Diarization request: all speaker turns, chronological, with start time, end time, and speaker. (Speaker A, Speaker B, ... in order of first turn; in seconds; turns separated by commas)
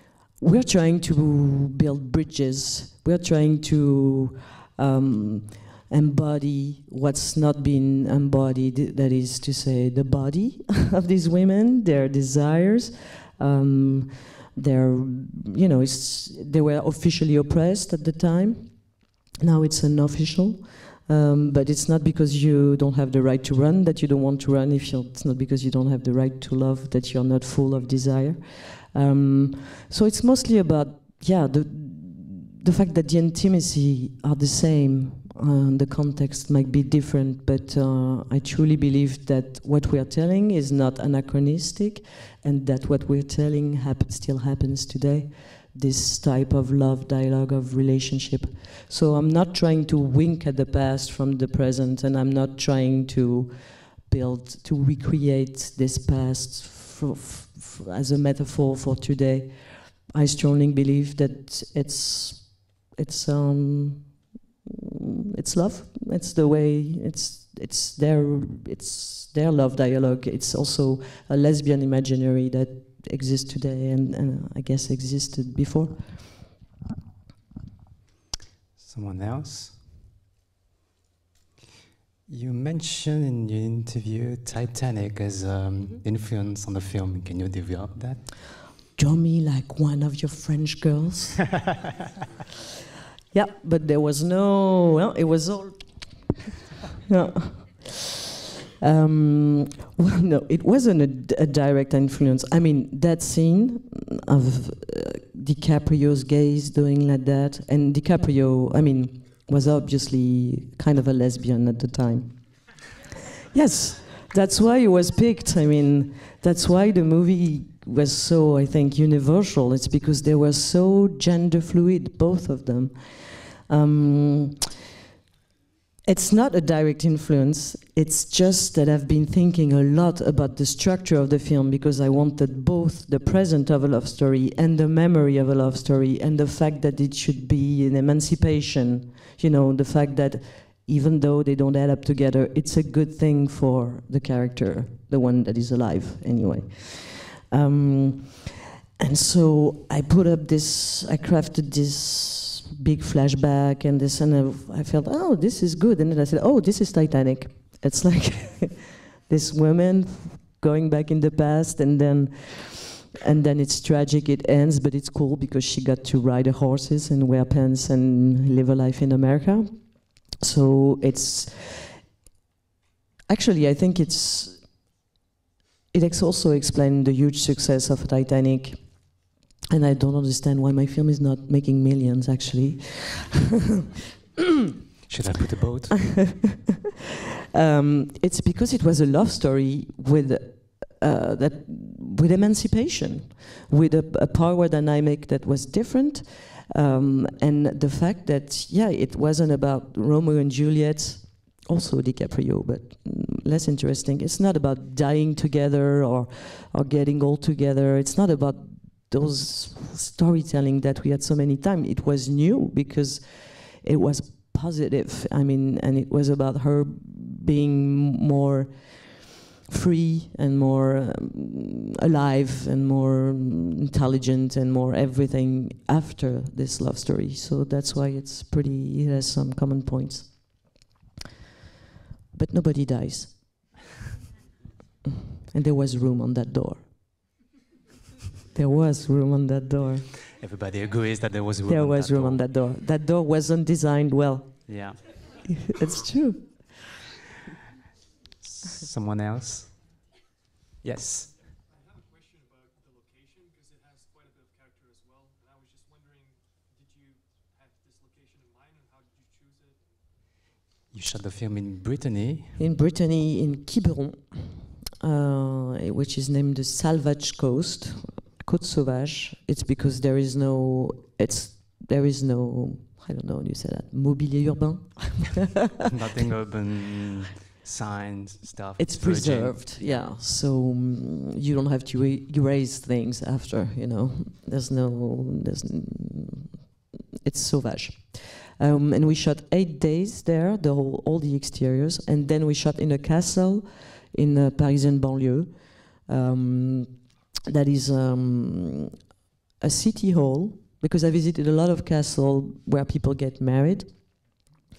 Speaker A: 0.4-64.2, Speaker A: 65.3-76.4, Speaker B: 78.8-79.9, Speaker B: 82.3-88.4, Speaker A: 89.0-91.6, Speaker A: 93.3-96.4, Speaker A: 97.0-98.1, Speaker A: 98.8-124.6, Speaker A: 126.0-172.0, Speaker A: 173.3-174.8, Speaker A: 175.9-183.5, Speaker B: 185.1-186.2, Speaker A: 185.9-186.5, Speaker A: 187.5-230.8, Speaker A: 232.3-233.8, Speaker A: 235.4-237.3, Speaker A: 238.5-240.1, Speaker B: 240.3-242.5, Speaker A: 241.6-244.7, Speaker B: 244.7-245.0, Speaker A: 245.6-246.7, Speaker B: 248.4-249.8, Speaker B: 250.8-251.4, Speaker C: 251.3-260.1, Speaker B: 260.9-262.6, Speaker A: 262.6-275.6, Speaker B: 275.8-280.1, Speaker A: 278.8-298.9, Speaker A: 299.6-304.4